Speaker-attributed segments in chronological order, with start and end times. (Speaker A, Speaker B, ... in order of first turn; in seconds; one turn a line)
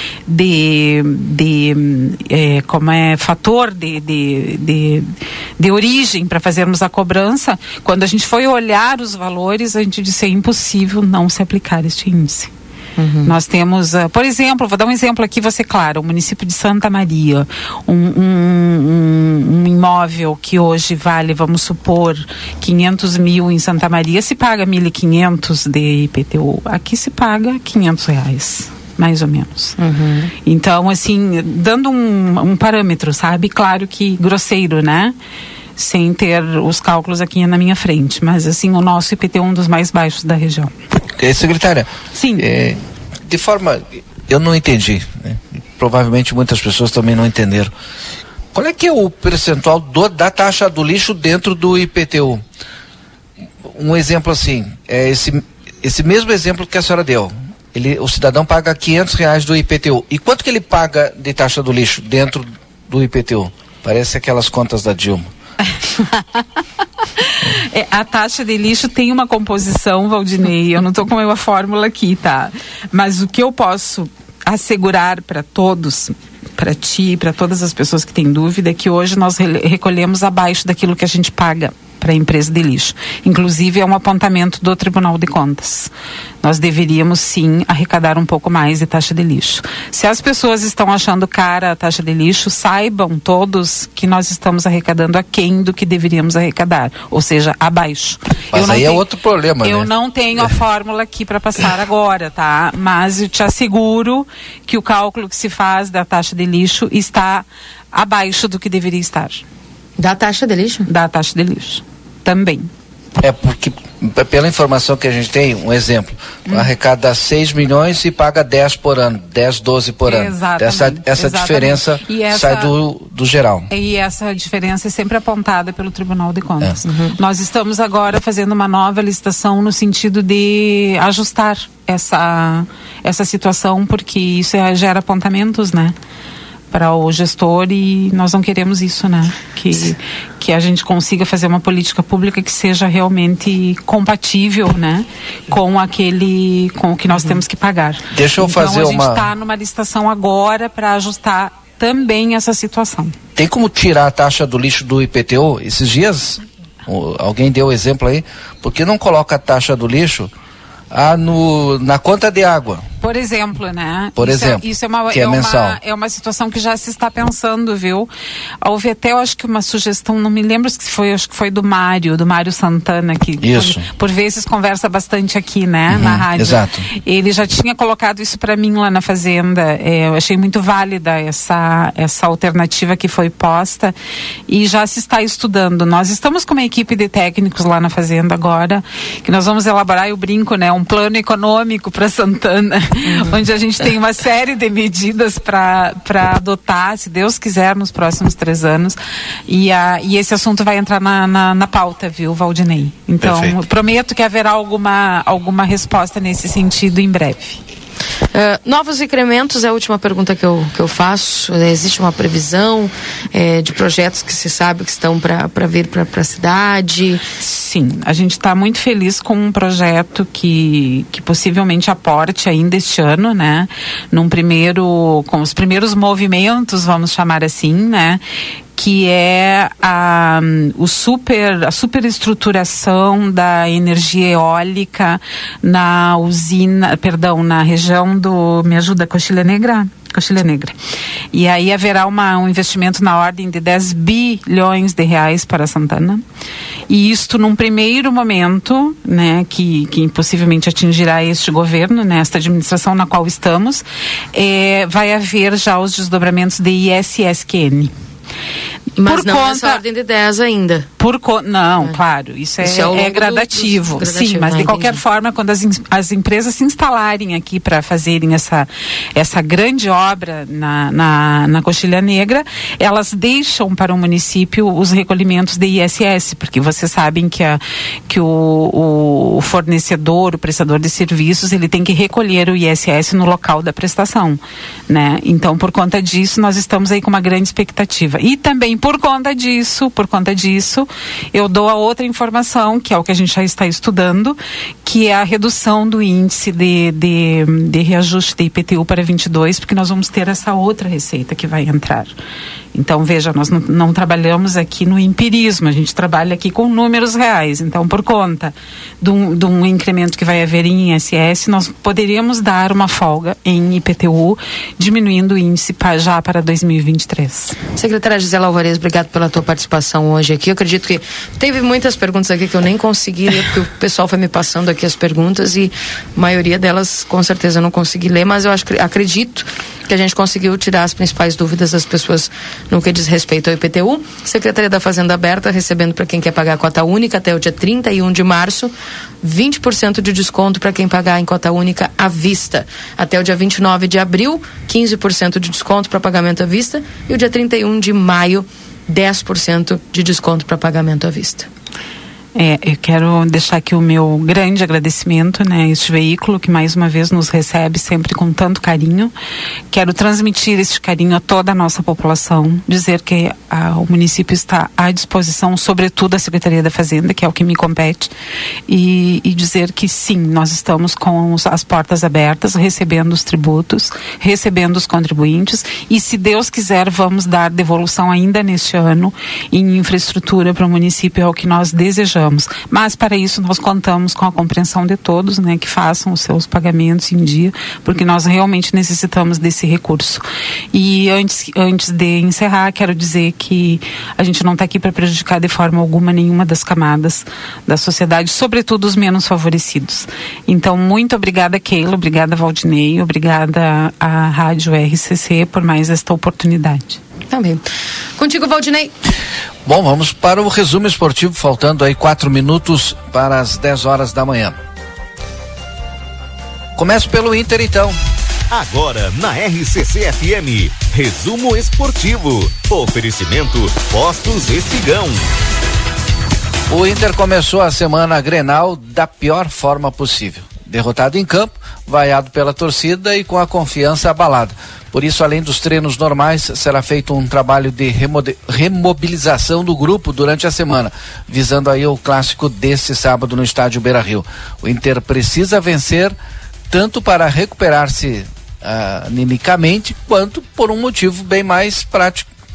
Speaker A: 0.3-12.5
Speaker B: 13.0-13.3
Speaker A: 13.2-29.8
Speaker B: 29.8-30.3
Speaker A: 30.4-35.1
Speaker A: 35.8-40.7
Speaker C: 41.2-47.7
Speaker A: 42.1-42.5
Speaker C: 48.5-52.4
Speaker C: 53.6-65.3
Speaker A: 66.0-66.4
Speaker A: 67.2-85.9
Speaker A: 86.4-99.0
Speaker C: 98.5-100.5
Speaker A: 99.6-109.4
Speaker B: 110.0-110.9
Speaker A: 110.9-112.7
Speaker C: 113.2-123.7
Speaker A: 116.5-116.7
Speaker A: 120.0-122.8
Speaker A: 123.7-135.9
Speaker B: 126.8-127.2
Speaker A: 136.7-153.2
Speaker C: 148.1-149.3
Speaker C: 153.4-160.3
Speaker C: 160.9-162.9
Speaker A: 163.0-168.1
Speaker C: 164.2-165.8
Speaker A: 168.6-183.9
Speaker C: 173.4-173.8
Speaker C: 175.9-176.8
Speaker A: 184.5-207.6
Speaker B: 193.1-193.4
Speaker C: 203.2-203.6
Speaker B: 208.3-217.2
Speaker A: 217.4-228.2
Speaker A: 228.8-240.8
Speaker A: 241.3-246.2
Speaker A: 246.9-257.9
Speaker B: 259.0-260.9
Speaker A: 259.0-259.8
Speaker A: 261.0-302.1
Speaker B: 262.6-265.0
Speaker A: 302.7-317.6
Speaker B: 317.8-351.5
Speaker A: 352.4-359.1
Speaker A: 359.7-368.1
Speaker A: 368.7-407.0
Speaker B: 407.3-407.6
Speaker B: 408.2-408.9
Speaker C: 409.6-414.6
Speaker C: 416.8-418.0
Speaker D: 418.5-425.3
Speaker C: 426.7-446.1
Speaker C: 446.7-452.3